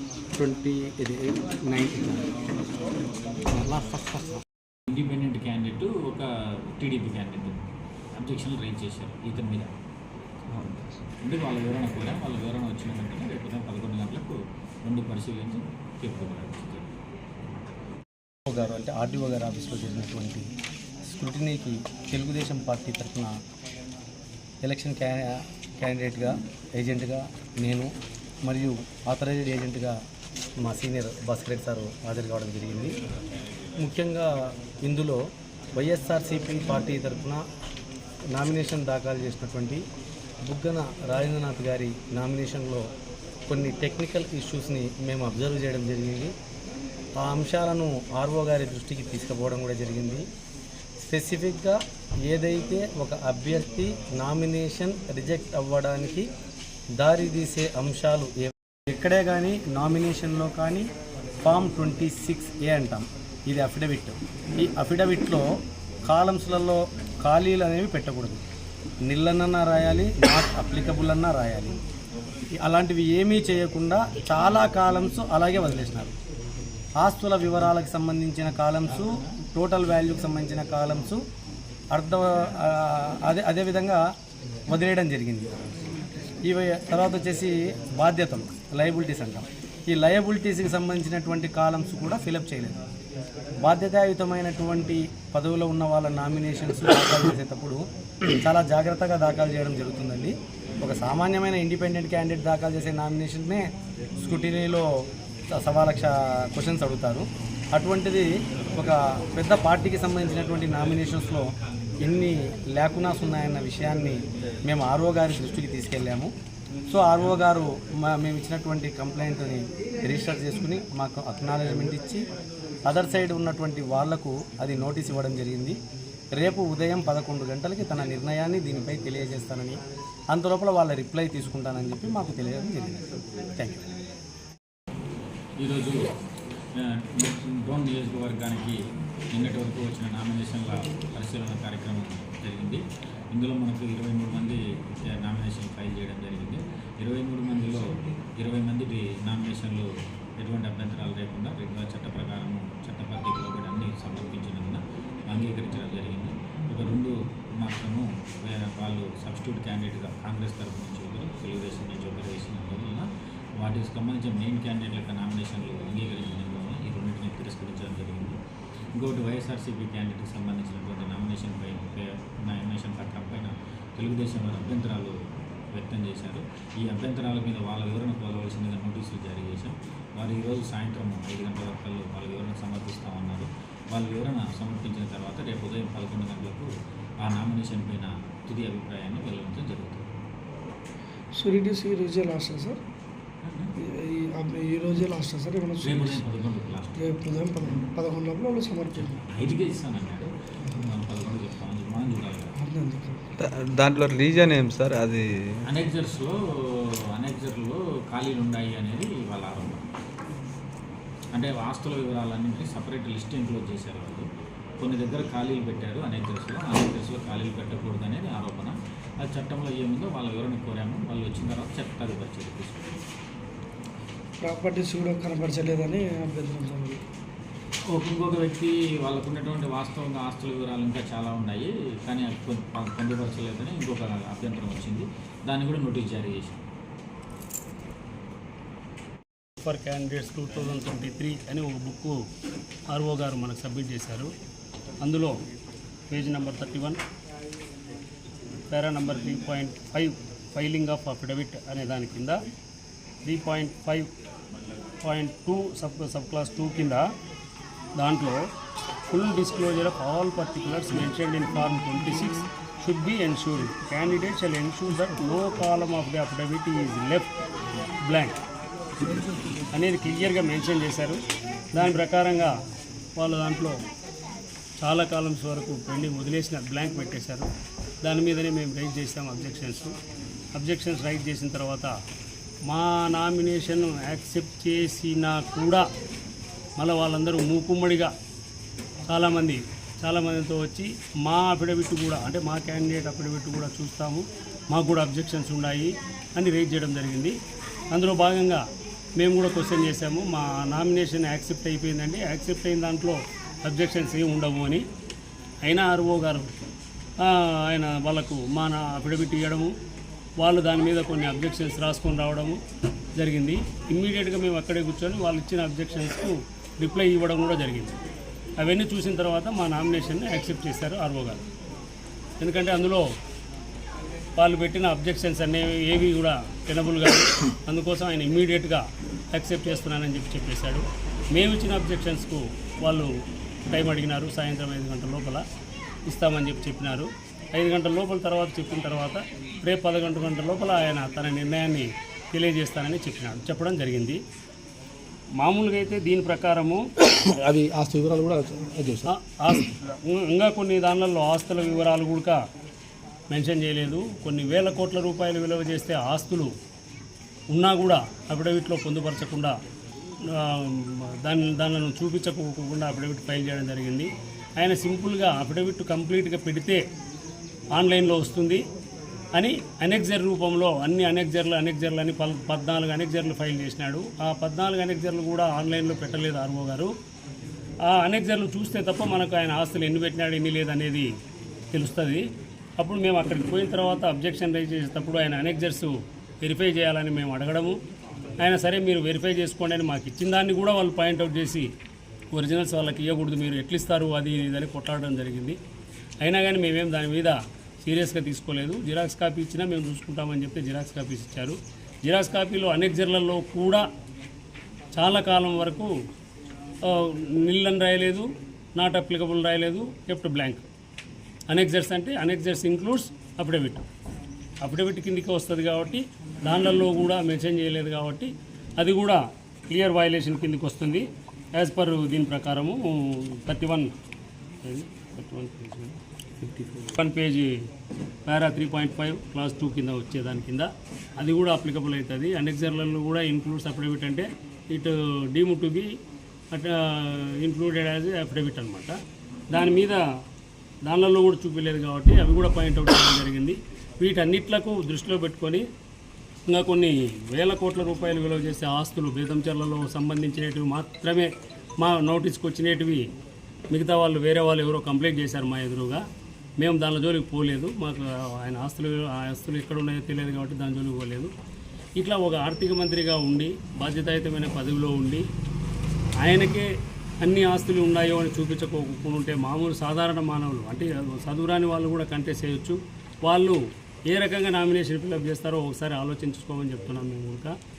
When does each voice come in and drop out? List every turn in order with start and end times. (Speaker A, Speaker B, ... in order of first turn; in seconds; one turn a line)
Speaker A: 0.3-2.2
Speaker A: 3.5-4.4
Speaker B: 4.9-7.6
Speaker B: 8.2-9.7
Speaker B: 11.2-16.9
Speaker A: 18.5-20.5
Speaker A: 21.1-23.4
Speaker A: 24.6-27.9
Speaker A: 28.4-29.9
Speaker A: 30.6-32.9
Speaker A: 33.8-34.3
Speaker A: 34.9-35.2
Speaker A: 35.8-37.4
Speaker A: 38.3-39.8
Speaker A: 40.5-42.9
Speaker A: 43.5-46.3
Speaker A: 47.2-50.2
Speaker A: 51.0-56.3
Speaker A: 57.0-60.9
Speaker A: 61.4-65.4
Speaker A: 66.0-68.4
Speaker A: 69.1-71.8
Speaker A: 72.6-76.1
Speaker A: 77.0-81.2
Speaker A: 81.9-84.0
Speaker A: 84.7-85.5
Speaker A: 86.5-92.8
Speaker A: 93.6-97.8
Speaker A: 98.3-103.6
Speaker A: 104.2-104.9
Speaker A: 105.5-111.5
Speaker A: 112.0-116.3
Speaker A: 116.9-122.2
Speaker A: 122.8-125.8
Speaker A: 126.3-129.8
Speaker A: 130.3-133.0
Speaker A: 133.6-133.9
Speaker B: 135.6-136.1
Speaker B: 136.8-138.8
Speaker B: 139.3-142.8
Speaker B: 143.3-168.4
Speaker B: 168.9-175.1
Speaker B: 175.7-186.7
Speaker B: 187.2-190.1
Speaker C: 191.3-192.8
Speaker B: 193.4-193.7
Speaker C: 193.8-196.2
Speaker B: 195.8-197.0
Speaker C: 196.9-199.2
Speaker B: 198.9-202.5
Speaker C: 200.6-200.9
Speaker C: 202.6-203.3
Speaker D: 203.5-205.6
Speaker B: 205.7-209.9
Speaker B: 211.3-214.3
Speaker B: 214.8-222.9
Speaker C: 224.4-227.0
Speaker B: 227.9-236.6
Speaker E: 239.6-242.2
Speaker E: 242.9-244.3
Speaker E: 245.0-245.3
Speaker E: 246.1-247.0
Speaker E: 248.7-252.4
Speaker E: 253.2-254.1
Speaker E: 255.0-257.1
Speaker E: 258.0-258.4
Speaker E: 259.1-267.3
Speaker E: 268.0-268.4
Speaker E: 269.7-271.2
Speaker E: 271.7-272.5
Speaker E: 273.2-273.8
Speaker E: 274.8-277.5
Speaker E: 278.0-279.9
Speaker E: 280.5-281.9
Speaker E: 282.7-285.9
Speaker E: 286.8-288.1
Speaker E: 289.1-297.4
Speaker E: 297.9-298.6
Speaker E: 299.2-304.8
Speaker E: 305.6-306.5
Speaker E: 307.2-309.7
Speaker E: 310.4-312.6
Speaker E: 313.1-318.0
Speaker E: 318.6-321.4
Speaker E: 322.4-323.1
Speaker E: 324.4-333.1
Speaker E: 333.7-335.4
Speaker E: 336.1-344.2
Speaker E: 345.4-346.9
Speaker C: 347.1-349.0
Speaker E: 349.0-352.4
Speaker E: 353.3-356.5
Speaker E: 357.5-359.6
Speaker E: 360.3-366.8
Speaker E: 367.7-368.6
Speaker E: 369.3-376.9
Speaker E: 377.9-381.1
Speaker E: 381.7-382.2
Speaker E: 382.8-387.8
Speaker E: 388.4-391.7
Speaker E: 392.3-395.6
Speaker E: 396.2-403.9
Speaker E: 404.9-405.9
Speaker E: 406.8-410.6
Speaker E: 411.5-413.8
Speaker E: 414.6-423.9
Speaker E: 424.6-427.5
Speaker E: 428.3-435.9
Speaker E: 436.5-438.9
Speaker E: 439.5-440.0
Speaker E: 440.9-445.6
Speaker E: 446.4-453.0
Speaker E: 453.7-456.0
Speaker E: 456.6-461.3
Speaker E: 462.0-465.2
Speaker E: 466.2-466.7
Speaker E: 467.2-477.5